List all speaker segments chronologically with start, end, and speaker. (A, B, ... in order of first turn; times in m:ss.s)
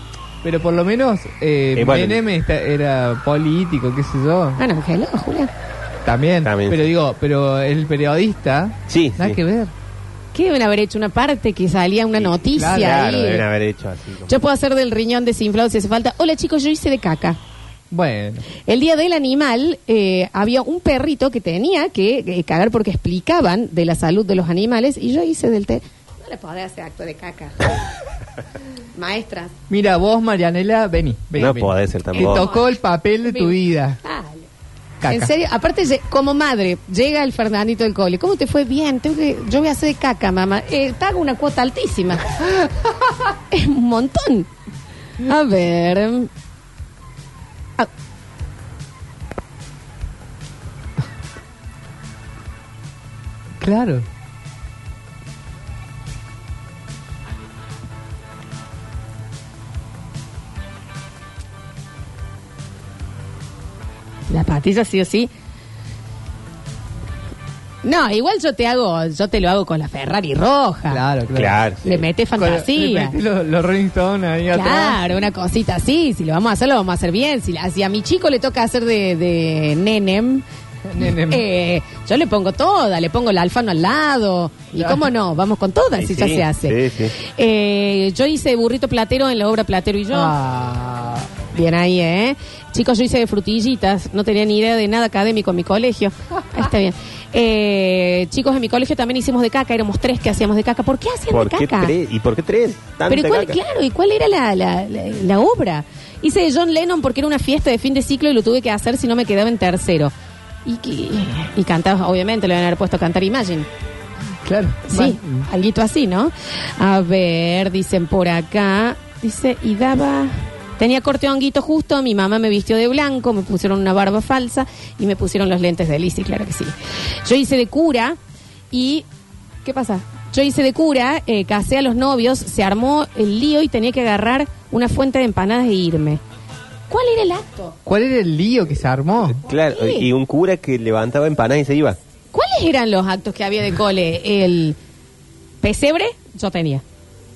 0:00.4-0:04.6 A
0:01.8-0:02.2 B
0:04.6-0:05.5 C
0:06.0-0:09.7 A
0:06.4-0:06.8 B
0:08.9-0:09.4 B
0:10.3-0:13.4 C
0:12.2-0:14.4 B
0:12.6-0:13.2 A
0:14.3-0:17.4 C
0:17.9-0:18.4 A
0:18.6-0:27.7 C
0:28.9-0:29.5 C
0:29.7-0:34.0 A
0:31.4-0:32.5 B
0:32.1-0:32.7 C
0:33.2-0:34.5 C
0:35.0-0:35.3 A
0:35.0-0:42.4 C
0:43.5-0:44.5 C
0:45.2-0:46.3 C
0:53.6-0:54.0 A
1:04.3-1:05.3 C
1:07.8-1:11.0 C
1:10.9-1:11.6 A
1:11.3-1:12.0 B
1:11.8-1:13.2 C
1:12.3-1:15.1 A
1:14.5-1:20.4 C
1:20.9-1:21.4 A
1:21.0-1:30.3 C
1:24.8-1:25.0 A
1:25.9-1:27.1 B
1:30.1-1:31.3 A
1:31.5-1:41.9 C
1:41.3-1:43.6 B
1:43.1-1:50.1 C
1:50.6-1:53.7 C
1:54.4-1:55.5 A
1:54.9-2:08.2 C
2:08.7-2:09.0 C
2:09.6-2:16.2 C
2:16.9-2:17.7 C
2:17.8-2:19.4 A
2:19.3-2:22.0 B
2:19.7-2:20.1 C
2:22.3-2:24.8 C
2:25.6-2:26.8 C